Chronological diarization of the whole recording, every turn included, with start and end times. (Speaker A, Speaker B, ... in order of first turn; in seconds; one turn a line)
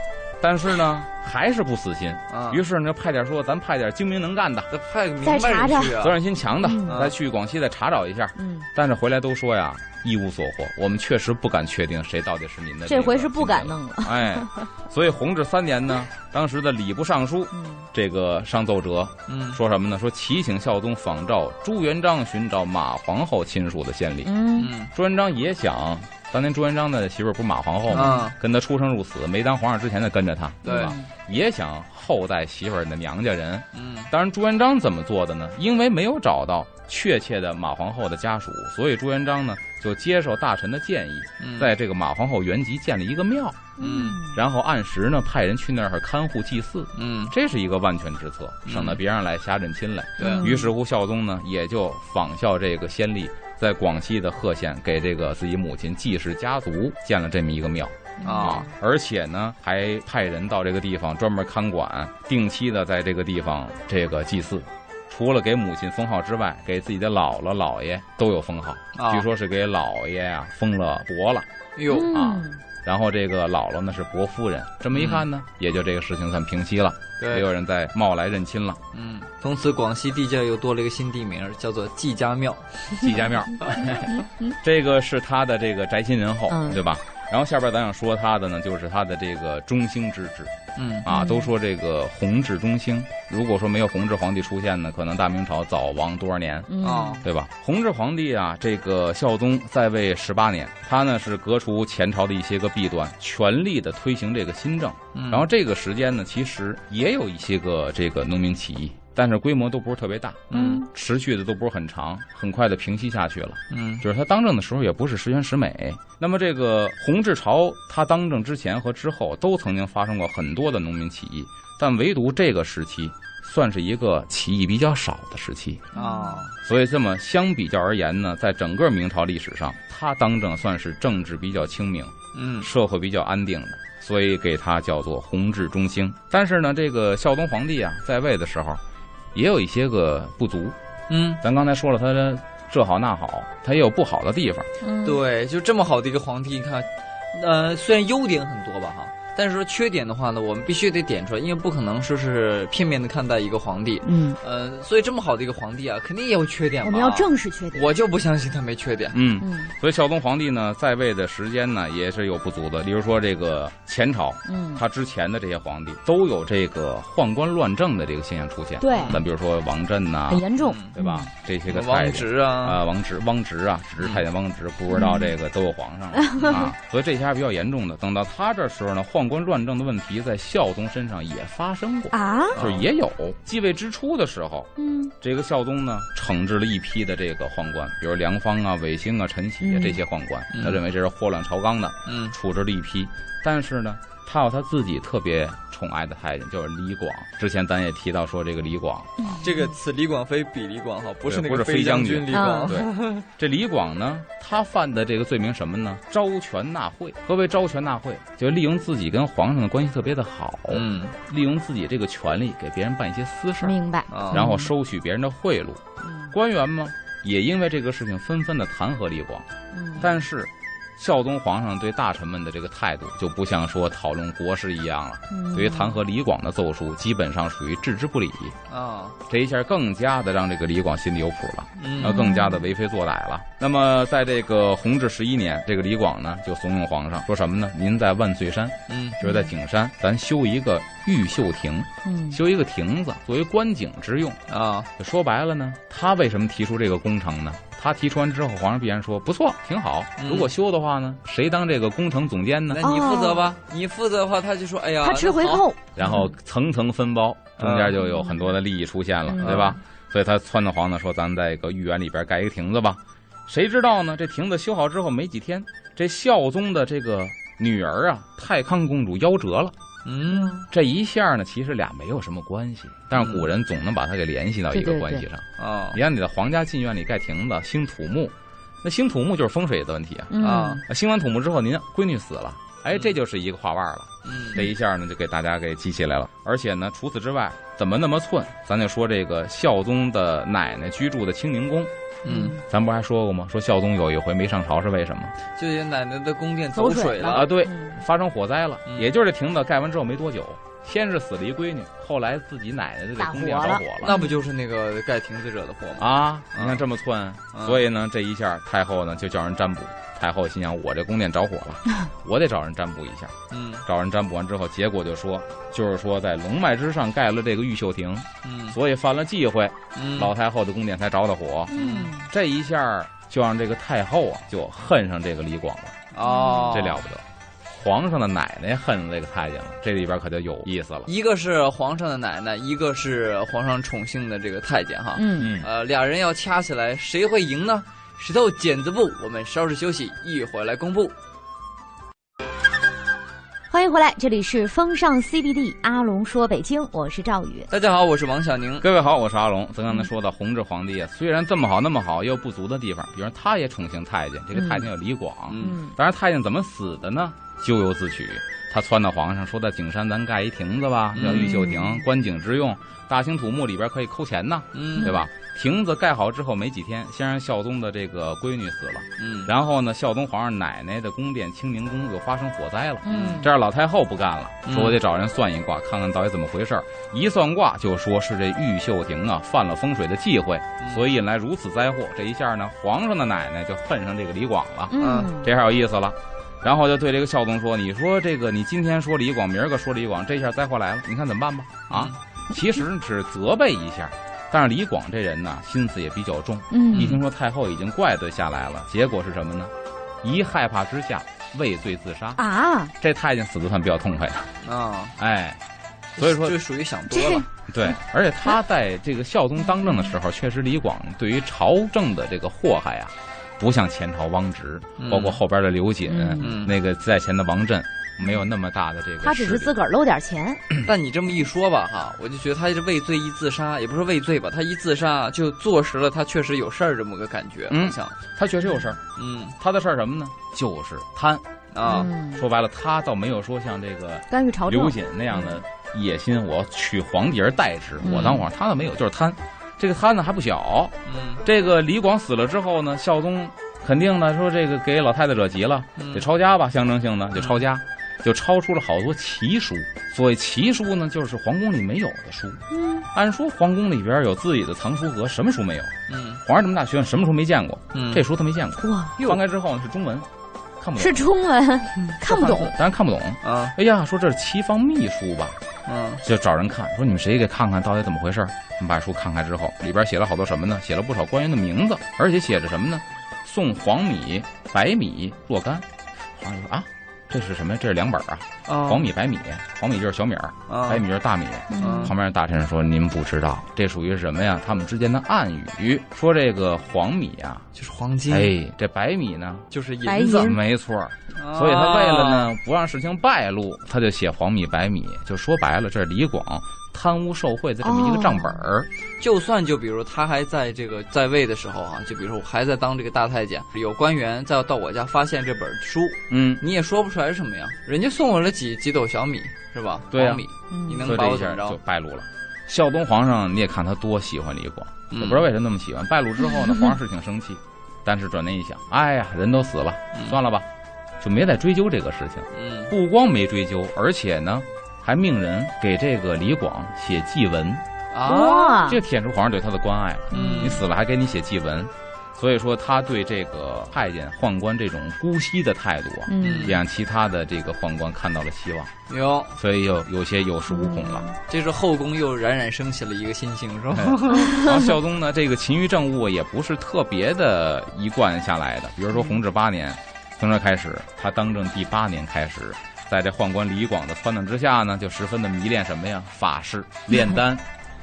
Speaker A: 0.4-4.7
Speaker B: 2.3-2.6
Speaker B: 4.7-6.2
Speaker C: 5.2-6.0
Speaker A: 6.0-24.3
Speaker C: 6.6-7.0
Speaker B: 6.9-7.2
Speaker C: 8.4-8.7
Speaker C: 12.9-14.6
Speaker C: 17.5-17.9
Speaker B: 19.3-19.6
Speaker C: 24.2-24.7
Speaker B: 24.6-24.9
Speaker A: 24.9-43.7
Speaker C: 27.9-28.3
Speaker B: 27.9-28.4
Speaker B: 30.6-30.9
Speaker C: 30.6-31.1
Speaker B: 33.7-34.1
Speaker B: 41.4-41.7
Speaker C: 43.8-44.4
Speaker B: 43.8-44.2
Speaker A: 44.3-71.5
Speaker B: 47.0-47.3
Speaker B: 48.7-49.0
Speaker B: 50.2-50.5
Speaker C: 50.2-50.7
Speaker C: 58.2-58.7
Speaker B: 58.2-58.6
Speaker B: 69.0-69.3
Speaker B: 71.8-72.1
Speaker C: 71.9-72.6
Speaker A: 72.0-78.8
Speaker B: 74.9-75.3
Speaker B: 77.2-77.5
Speaker B: 78.9-83.8
Speaker A: 83.0-90.5
Speaker C: 86.5-86.8
Speaker B: 90.8-91.1
Speaker A: 91.0-96.7
Speaker C: 91.1-91.5
Speaker C: 96.7-97.2
Speaker B: 96.8-97.2
Speaker A: 97.2-125.9
Speaker B: 105.1-105.5
Speaker B: 110.5-110.8
Speaker C: 110.5-110.9
Speaker B: 113.7-114.0
Speaker C: 125.9-126.5
Speaker B: 125.9-126.5
Speaker A: 126.6-138.8
Speaker B: 132.3-132.7
Speaker A: 139.3-140.8
Speaker B: 141.1-141.4
Speaker A: 141.4-144.7
Speaker C: 144.8-145.2
Speaker B: 145.1-159.2
Speaker C: 154.0-154.4
Speaker C: 156.8-157.9
Speaker A: 159.1-199.4
Speaker C: 159.4-159.7
Speaker C: 164.5-164.8
Speaker C: 168.8-169.2
Speaker B: 168.9-169.2
Speaker C: 170.3-171.3
Speaker B: 170.6-170.9
Speaker B: 171.7-172.8
Speaker C: 174.9-175.3
Speaker C: 176.2-176.7
Speaker C: 182.1-182.6
Speaker B: 182.6-182.8
Speaker C: 184.8-185.1
Speaker C: 189.6-190.0
Speaker B: 190.5-190.8
Speaker B: 192.1-192.3
Speaker C: 199.2-199.7
Speaker B: 199.4-203.2
Speaker A: 201.3-213.8
Speaker C: 202.3-202.7
Speaker B: 210.7-211.2
Speaker C: 213.6-214.7
Speaker B: 214.1-214.4
Speaker A: 214.3-219.5
Speaker C: 216.0-216.3
Speaker C: 219.7-220.1
Speaker A: 220.0-228.6
Speaker C: 225.3-226.0
Speaker B: 228.7-229.2
Speaker A: 229.3-244.4
Speaker B: 231.8-232.3
Speaker C: 232.0-232.7
Speaker B: 238.9-239.2
Speaker C: 239.2-239.5
Speaker C: 242.1-242.4
Speaker B: 244.5-244.9
Speaker A: 245.0-252.9
Speaker B: 250.2-250.5
Speaker B: 252.7-255.7
Speaker C: 252.8-253.5
Speaker C: 255.0-256.3
Speaker A: 256.0-269.8
Speaker B: 257.6-258.0
Speaker C: 258.1-258.4
Speaker C: 259.3-259.8
Speaker B: 259.4-259.8
Speaker B: 270.1-270.5
Speaker C: 270.3-270.6
Speaker A: 270.7-291.9
Speaker B: 273.2-273.5
Speaker C: 274.7-275.2
Speaker B: 275.6-276.0
Speaker C: 280.3-280.8
Speaker B: 280.4-280.8
Speaker B: 284.2-284.6
Speaker B: 292.2-292.6
Speaker C: 292.3-292.6
Speaker A: 292.6-295.4
Speaker B: 295.6-297.5
Speaker C: 296.7-298.0
Speaker A: 297.2-304.1
Speaker C: 303.2-304.3
Speaker B: 304.0-306.8
Speaker A: 306.0-326.0
Speaker B: 307.5-307.8
Speaker B: 313.5-313.9
Speaker B: 318.4-318.8
Speaker B: 320.0-320.3
Speaker C: 321.7-322.3
Speaker B: 321.7-322.1
Speaker B: 326.1-327.1
Speaker C: 326.2-326.9
Speaker A: 326.7-331.1
Speaker B: 331.1-341.1
Speaker C: 335.2-335.5
Speaker A: 335.4-335.7
Speaker C: 343.7-347.7
Speaker B: 347.7-348.9
Speaker A: 348.8-402.4
Speaker C: 354.6-354.9
Speaker B: 355.5-355.8
Speaker C: 355.6-355.9
Speaker B: 361.1-361.6
Speaker C: 361.2-362.0
Speaker B: 364.7-365.1
Speaker B: 369.2-369.5
Speaker C: 373.0-373.5
Speaker B: 373.1-373.4
Speaker B: 374.7-375.0
Speaker C: 384.9-385.5
Speaker B: 385.0-385.3
Speaker B: 391.9-392.2
Speaker C: 396.7-397.2
Speaker B: 396.9-397.2
Speaker C: 402.4-402.9
Speaker A: 403.0-404.5
Speaker B: 404.6-405.1
Speaker A: 405.2-405.6
Speaker A: 406.2-406.6
Speaker B: 406.2-407.5
Speaker C: 407.1-407.4
Speaker A: 407.7-419.7
Speaker B: 415.0-415.4
Speaker C: 416.1-416.5
Speaker B: 416.4-416.7
Speaker C: 419.2-420.6
Speaker B: 420.8-428.2
Speaker A: 427.7-429.0
Speaker B: 429.2-429.6
Speaker A: 429.6-452.6
Speaker B: 431.7-432.1
Speaker C: 431.8-432.4
Speaker C: 434.3-435.6
Speaker C: 438.0-438.4
Speaker B: 438.1-438.4
Speaker B: 441.1-441.4
Speaker B: 446.0-446.3
Speaker B: 447.4-447.6
Speaker C: 452.7-453.1
Speaker A: 453.1-460.3
Speaker B: 456.1-456.4
Speaker B: 457.9-458.2
Speaker C: 458.8-459.1
Speaker A: 460.8-461.3
Speaker C: 461.0-462.7
Speaker A: 462.2-465.6
Speaker B: 463.4-463.7
Speaker B: 465.9-466.2
Speaker A: 466.2-487.7
Speaker B: 478.7-479.1
Speaker B: 480.7-481.1
Speaker C: 481.7-482.1
Speaker B: 481.8-482.1
Speaker B: 487.8-488.6
Speaker A: 488.3-489.7
Speaker B: 489.7-490.6
Speaker C: 490.1-490.6
Speaker A: 490.3-498.9
Speaker B: 491.4-492.5
Speaker C: 497.8-498.6
Speaker B: 499.2-511.8
Speaker A: 506.3-506.6
Speaker A: 510.1-510.4
Speaker C: 510.7-511.1
Speaker A: 511.0-520.7
Speaker B: 515.1-515.5
Speaker A: 521.2-527.8
Speaker B: 522.5-522.9
Speaker B: 528.1-528.8
Speaker C: 528.2-529.0
Speaker A: 528.8-538.9
Speaker B: 530.3-530.8
Speaker C: 530.3-530.8
Speaker C: 536.3-536.8
Speaker B: 536.4-536.8
Speaker B: 539.1-539.5
Speaker A: 539.6-541.3
Speaker C: 540.7-541.4
Speaker B: 541.5-544.7
Speaker A: 543.9-557.6